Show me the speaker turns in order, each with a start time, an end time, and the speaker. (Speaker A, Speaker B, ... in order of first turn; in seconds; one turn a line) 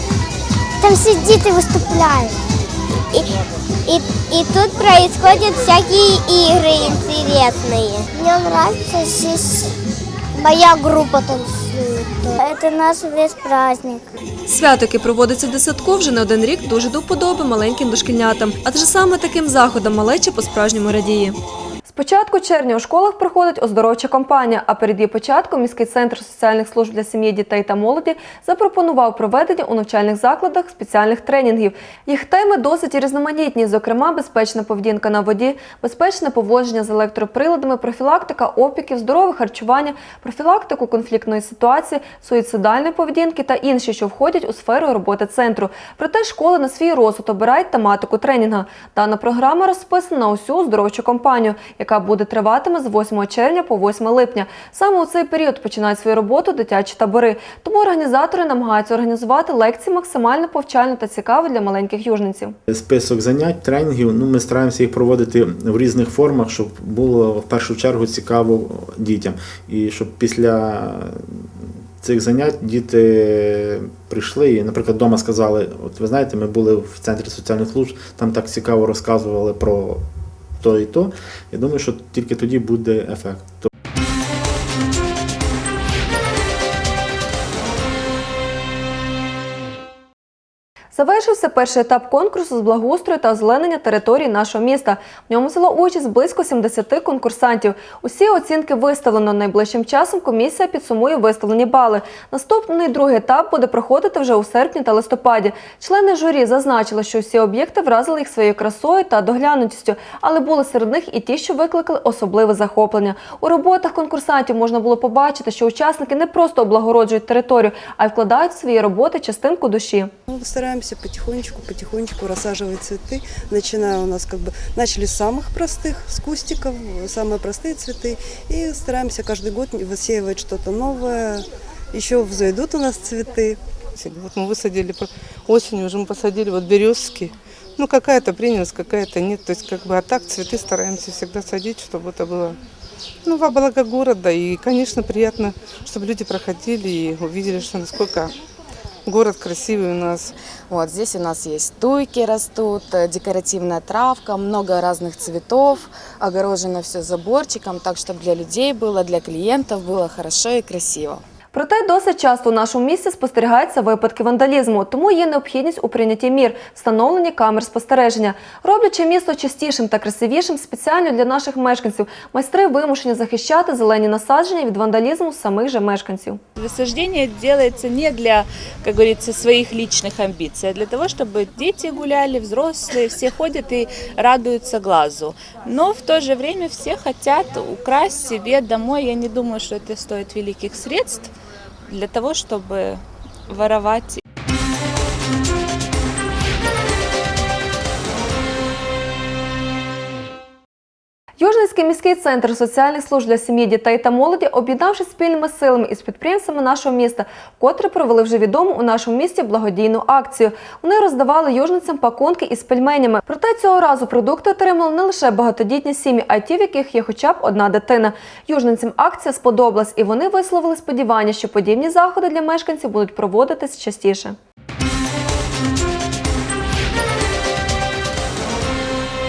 Speaker A: 0.8-2.4
Speaker A: 3.9-9.7
Speaker A: 10.4-14.1
Speaker B: 14.5-21.4
Speaker B: 21.9-62.6
Speaker C: 62.7-83.7
Speaker B: 90.9-120.1
Speaker D: 120.3-133.6
Speaker E: 134.0-142.6
Speaker E: 143.2-148.3
Speaker E: 149.1-150.3
Speaker F: 150.7-161.2
Speaker B: 161.5-176.4
Speaker G: 176.6-191.3
Speaker G: 191.9-194.2
Speaker B: 201.4-224.4